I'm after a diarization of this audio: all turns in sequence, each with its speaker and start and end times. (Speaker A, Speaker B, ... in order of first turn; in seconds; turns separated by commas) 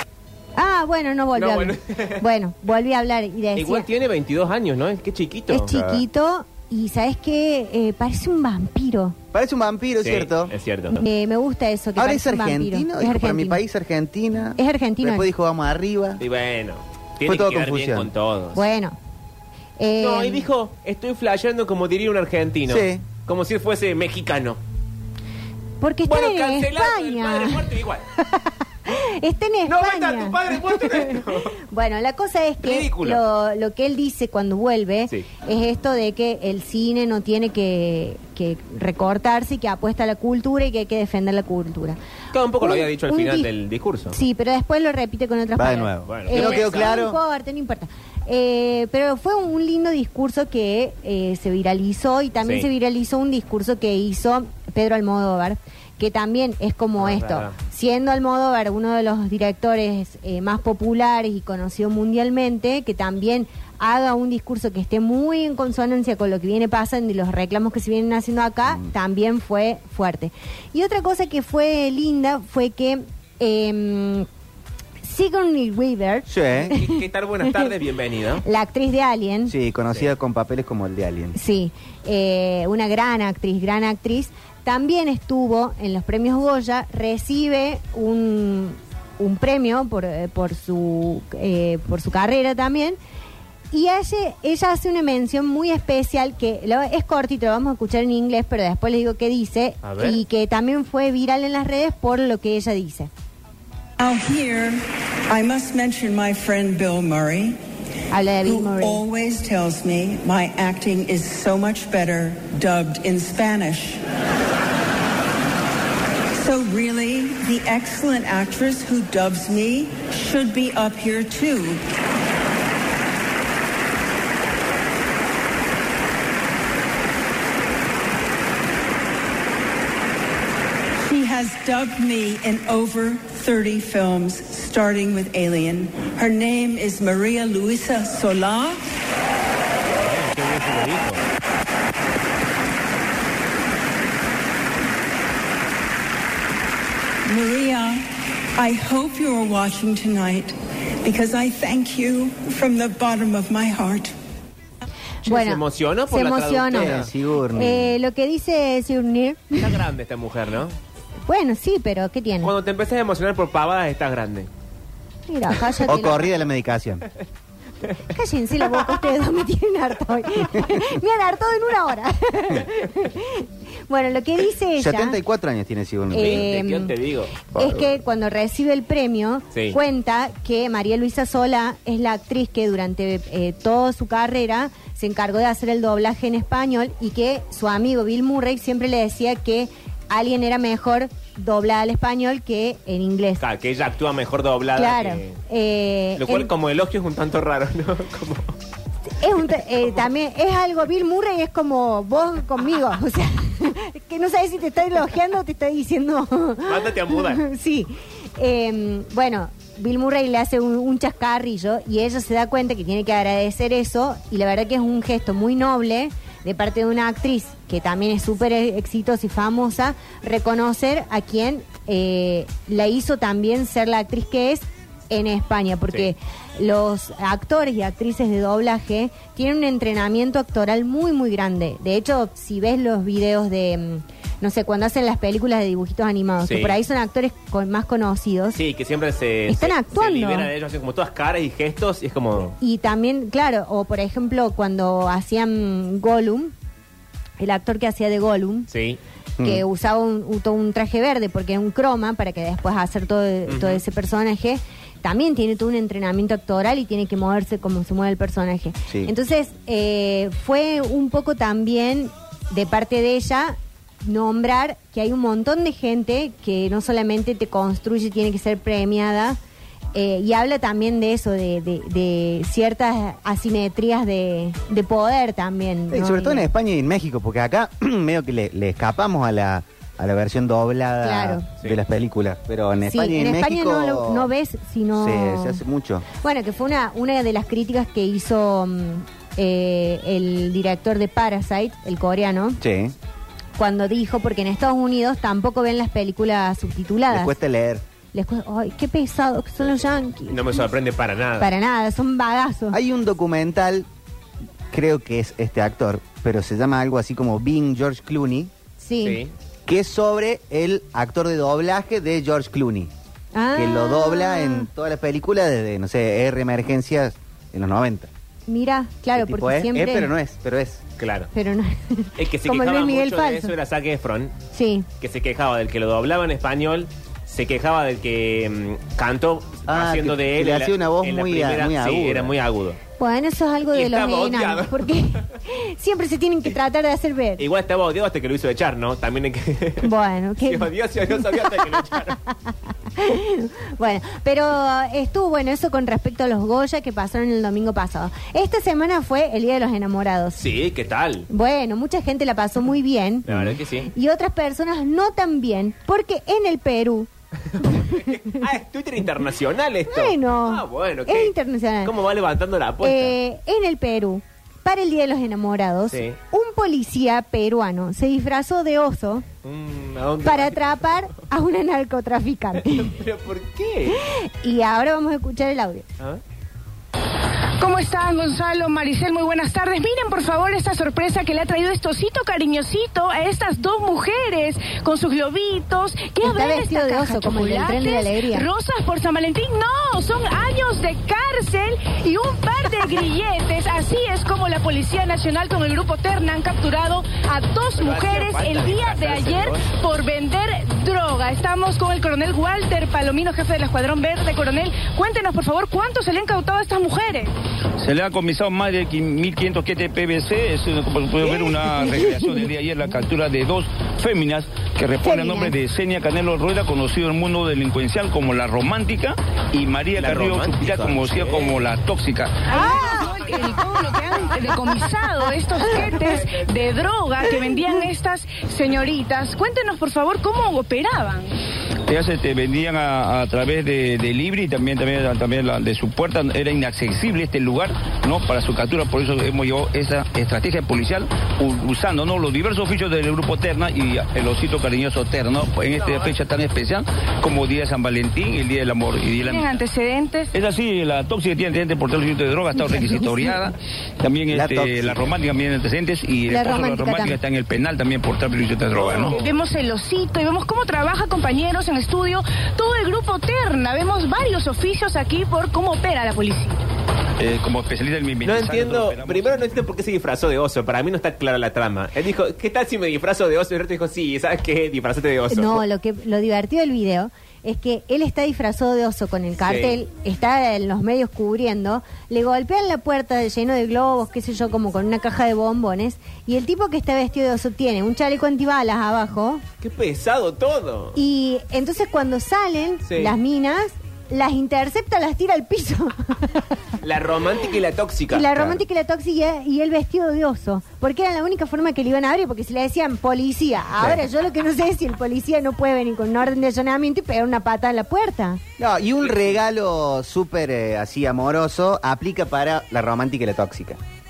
Speaker A: 0.6-3.9, Speaker B: 1.3-2.2, Speaker B: 3.5-5.7, Speaker A: 5.5-9.2, Speaker C: 5.7-6.0, Speaker C: 9.3-10.5, Speaker B: 10.0-11.0, Speaker A: 10.9-13.6, Speaker C: 12.0-16.2, Speaker A: 14.6-15.3, Speaker B: 16.2-18.6, Speaker C: 17.2-18.1, Speaker A: 18.6-19.0, Speaker A: 19.8-20.4, Speaker B: 20.0-24.6, Speaker C: 22.7-23.1, Speaker A: 25.8-42.0, Speaker B: 26.1-28.0, Speaker B: 29.7-31.6, Speaker B: 32.6-33.2, Speaker B: 42.3-44.2, Speaker A: 42.6-43.5, Speaker A: 44.1-74.3, Speaker C: 45.6-47.2, Speaker B: 46.1-47.0, Speaker B: 52.4-52.7, Speaker B: 57.0-57.6, Speaker A: 75.0-77.7, Speaker C: 76.3-76.7, Speaker B: 76.7-78.5, Speaker A: 78.4-79.5, Speaker C: 79.5-81.3, Speaker A: 81.3-93.0, Speaker A: 93.7-103.1, Speaker B: 99.8-100.2, Speaker D: 104.0-107.6, Speaker A: 108.1-109.0, Speaker D: 108.4-114.0, Speaker D: 116.3-121.8, Speaker D: 131.0-138.8, Speaker B: 140.0-141.2, Speaker D: 147.3-154.1, Speaker A: 155.3-157.0, Speaker B: 155.3-157.1, Speaker C: 156.7-157.9, Speaker A: 157.5-159.8, Speaker B: 159.6-160.8, Speaker A: 161.3-162.5, Speaker B: 162.4-164.5, Speaker A: 165.3-166.3, Speaker C: 165.8-167.1, Speaker A: 168.1-175.2, Speaker C: 174.8-176.5, Speaker A: 176.1-176.9, Speaker B: 176.1-177.3, Speaker A: 177.6-193.4, Speaker C: 177.6-178.0, Speaker B: 193.4-195.4, Speaker A: 194.8-196.5, Speaker B: 196.2-198.5, Speaker A: 199.2-238.6, Speaker B: 206.7-207.4, Speaker B: 236.4-236.8, Speaker B: 238.5-242.6, Speaker A: 239.5-240.5, Speaker A: 242.6-246.5, Speaker A: 247.4-248.7, Speaker B: 248.7-249.0, Speaker A: 249.4-269.4, Speaker B: 253.5-253.8, Speaker A: 269.9-276.5, Speaker C: 275.9-284.3, Speaker A: 281.0-281.5, Speaker A: 282.9-285.6, Speaker C: 284.9-286.1, Speaker A: 286.2-292.6, Speaker C: 292.6-292.9, Speaker A: 293.6-297.4, Speaker C: 297.1-297.8, Speaker A: 298.1-300.7, Speaker B: 300.3-301.5, Speaker A: 301.4-302.8, Speaker C: 302.7-303.9, Speaker C: 304.7-308.5, Speaker A: 308.8-309.2, Speaker B: 309.0-309.3, Speaker C: 309.7-312.9, Speaker A: 313.3-314.7, Speaker C: 313.5-318.1, Speaker A: 318.5-320.1, Speaker C: 319.1-320.8, Speaker B: 321.0-321.3, Speaker A: 321.3-323.5, Speaker B: 322.2-324.4, Speaker A: 324.5-324.9, Speaker B: 325.0-332.8, Speaker C: 329.7-332.4, Speaker A: 333.0-337.4, Speaker B: 333.7-334.9, Speaker B: 337.4-342.2, Speaker A: 339.8-350.4, Speaker B: 350.4-351.3, Speaker A: 351.3-357.1, Speaker B: 353.3-353.9, Speaker B: 357.5-363.2, Speaker A: 357.7-358.2, Speaker A: 359.9-361.9, Speaker A: 362.8-369.3, Speaker B: 365.9-366.2, Speaker B: 369.4-370.9, Speaker A: 370.2-373.0, Speaker B: 372.7-374.0, Speaker A: 373.9-375.9, Speaker E: 377.6-407.3, Speaker A: 386.2-388.5, Speaker B: 397.8-399.8, Speaker F: 407.8-422.5, Speaker A: 411.9-412.1, Speaker A: 415.0-415.5, Speaker B: 420.0-421.6, Speaker E: 422.5-431.3, Speaker A: 422.6-423.1, Speaker B: 425.8-426.5, Speaker F: 431.9-449.6, Speaker B: 445.8-446.1, Speaker E: 449.2-450.3, Speaker F: 450.3-459.2, Speaker C: 454.3-455.1, Speaker A: 456.3-457.2, Speaker B: 458.8-459.3, Speaker E: 459.1-466.6, Speaker F: 467.2-469.5, Speaker B: 468.3-475.6, Speaker A: 475.3-489.4, Speaker B: 479.4-479.8, Speaker B: 489.6-491.0, Speaker A: 490.9-496.4, Speaker B: 492.9-493.2, Speaker B: 496.8-498.6, Speaker A: 498.1-508.4, Speaker C: 508.6-513.8, Speaker B: 509.0-509.4